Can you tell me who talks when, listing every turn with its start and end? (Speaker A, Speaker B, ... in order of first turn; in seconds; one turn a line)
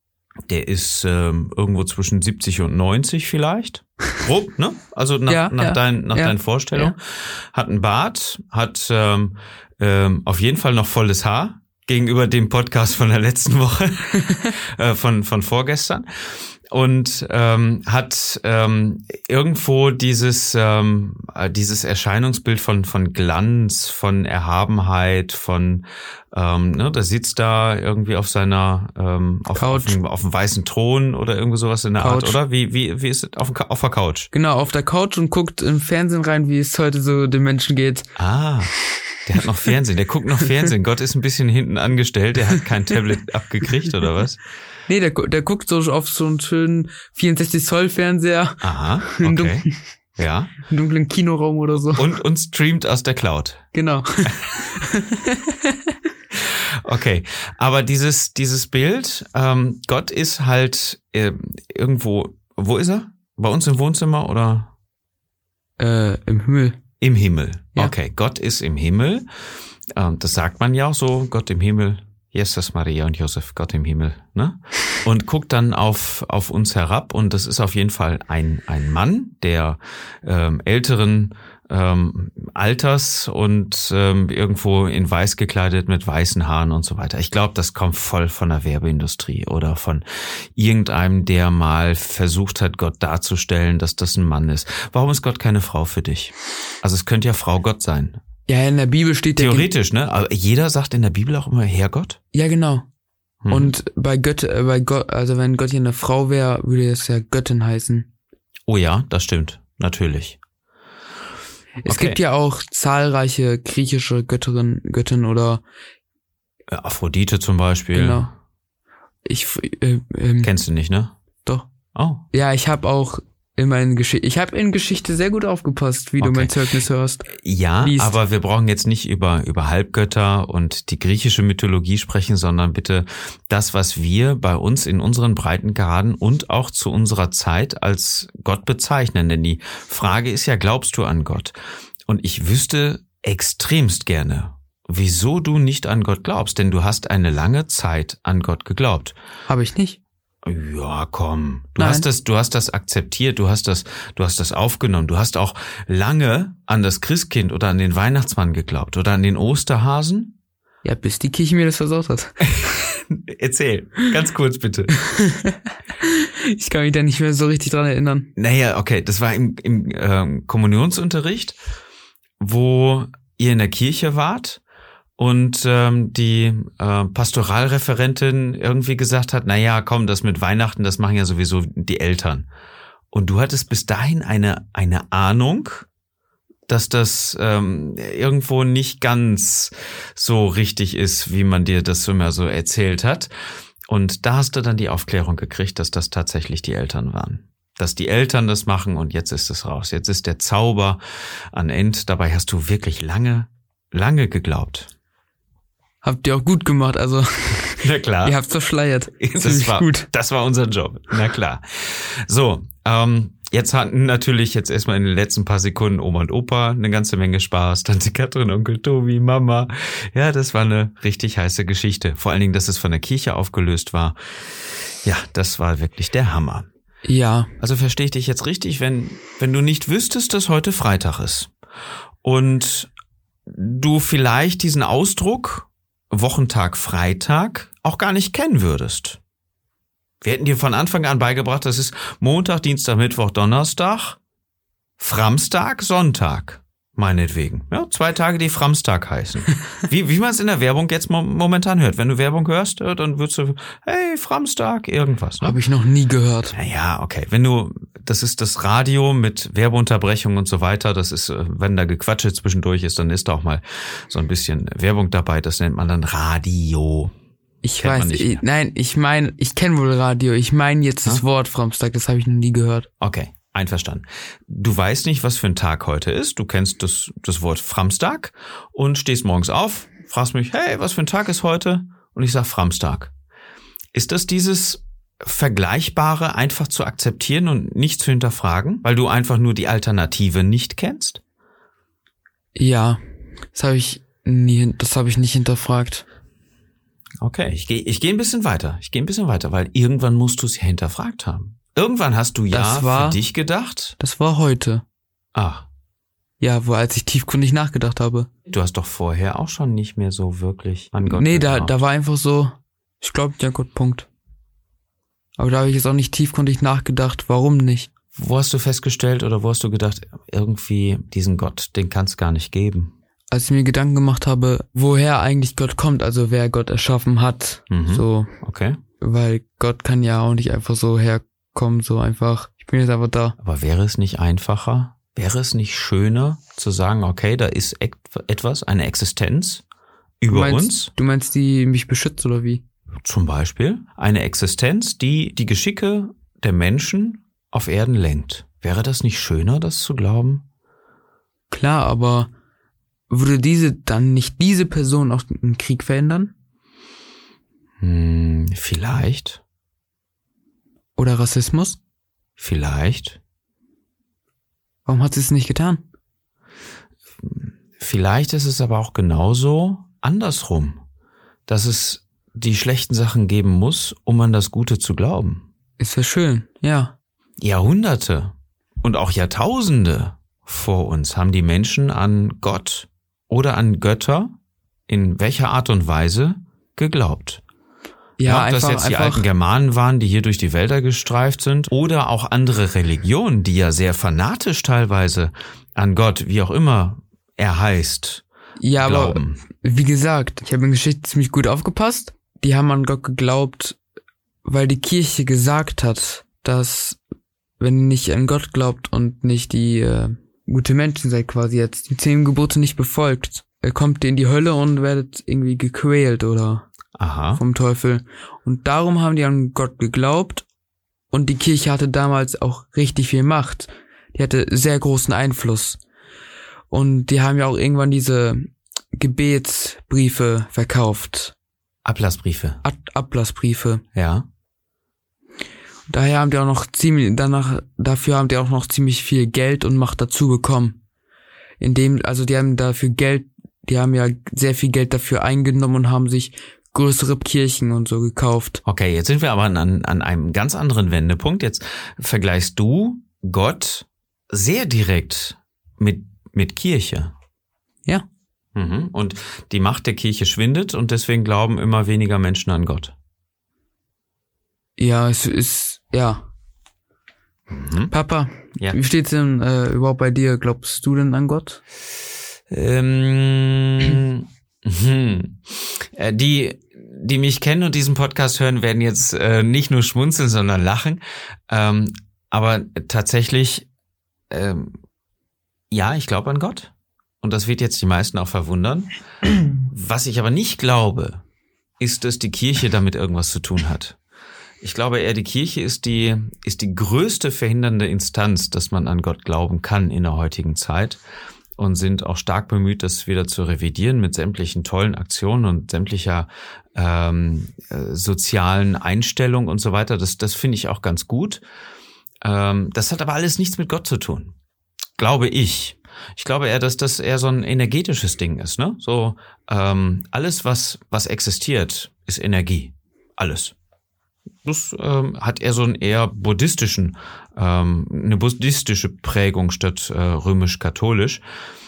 Speaker A: 0.5-16.1
Speaker B: 5.3-6.9
Speaker A: 16.7-34.3
Speaker B: 29.5-30.0
Speaker B: 32.0-32.4
Speaker B: 34.3-38.1
Speaker A: 38.2-38.7
Speaker A: 39.2-44.4
Speaker B: 44.9-49.8
Speaker A: 48.6-49.6
Speaker A: 50.2-50.5
Speaker B: 50.7-52.0
Speaker A: 52.0-53.6
Speaker B: 53.7-55.9
Speaker A: 56.3-64.7
Speaker B: 65.8-66.8
Speaker A: 67.0-69.2
Speaker A: 69.9-90.0
Speaker A: 90.5-98.2
Speaker B: 98.5-99.7
Speaker A: 99.3-102.2
Speaker B: 102.3-102.8
Speaker A: 103.4-103.7
Speaker B: 103.5-108.1
Speaker A: 108.7-110.4
Speaker B: 111.8-115.6
Speaker A: 111.8-112.2
Speaker A: 116.7-118.3
Speaker B: 117.9-118.3
Speaker B: 119.2-120.5
Speaker A: 120.4-121.1
Speaker A: 121.9-122.2
Speaker B: 122.3-128.2
Speaker A: 126.2-126.5
Speaker A: 127.3-141.5
Speaker A: 142.1-149.1
Speaker B: 149.5-150.0
Speaker A: 150.4-160.3
Speaker B: 151.8-152.1
Speaker B: 160.8-162.4
Speaker A: 162.4-164.9
Speaker B: 165.0-168.3
Speaker A: 168.3-171.6
Speaker A: 172.4-174.6
Speaker A: 175.2-182.5
Speaker A: 183.1-185.9
Speaker A: 186.7-193.3
Speaker A: 193.9-201.0
Speaker A: 201.5-204.9
Speaker B: 206.0-210.1
Speaker A: 207.8-208.4
Speaker A: 209.2-226.7
Speaker B: 227.0-227.5
Speaker A: 227.6-231.5
Speaker A: 232.2-232.9
Speaker A: 233.5-239.2
Speaker A: 240.2-244.2
Speaker A: 245.0-255.6
Speaker B: 255.4-256.5
Speaker A: 256.5-267.1
Speaker B: 267.6-272.9
Speaker A: 267.8-268.4
Speaker A: 273.0-283.1
Speaker A: 283.9-291.2
Speaker B: 292.5-293.0
Speaker B: 293.5-296.0
Speaker A: 297.2-304.0
Speaker B: 302.5-303.2
Speaker B: 304.0-304.8
Speaker A: 305.3-305.6
Speaker B: 306.4-308.3
Speaker A: 308.5-311.7
Speaker B: 311.1-314.1
Speaker B: 315.4-317.9
Speaker A: 318.1-322.9
Speaker B: 323.3-328.3
Speaker A: 327.7-328.8
Speaker B: 329.0-333.4
Speaker A: 333.4-339.6
Speaker A: 340.2-340.9
Speaker B: 340.3-342.6
Speaker A: 343.0-350.4
Speaker B: 351.5-352.3
Speaker B: 353.1-356.3
Speaker A: 357.8-359.4
Speaker B: 360.9-361.8
Speaker A: 362.4-363.2
Speaker B: 364.9-365.8
Speaker A: 367.2-370.8
Speaker A: 371.5-375.4
Speaker B: 375.8-376.9
Speaker A: 377.4-384.3
Speaker A: 384.9-387.4
Speaker B: 388.2-389.3
Speaker A: 388.2-398.2
Speaker B: 398.6-403.8
Speaker A: 398.8-399.4
Speaker B: 404.4-407.0
Speaker B: 407.6-416.6
Speaker A: 417.0-417.4
Speaker B: 417.3-420.4
Speaker B: 421.1-425.8
Speaker B: 426.7-431.3
Speaker A: 431.8-432.6
Speaker B: 432.6-433.8
Speaker A: 433.9-434.2
Speaker B: 435.9-440.8
Speaker B: 441.6-448.6
Speaker A: 448.6-457.1
Speaker A: 458.5-462.9
Speaker B: 464.8-466.3
Speaker A: 467.5-467.9
Speaker B: 467.9-471.6
Speaker A: 472.5-483.7
Speaker A: 484.3-484.8
Speaker A: 485.7-488.9
Speaker A: 489.6-491.2
Speaker A: 491.8-494.0
Speaker A: 494.6-501.0
Speaker A: 501.6-511.4
Speaker A: 512.2-514.3
Speaker A: 515.0-523.5
Speaker A: 524.4-531.2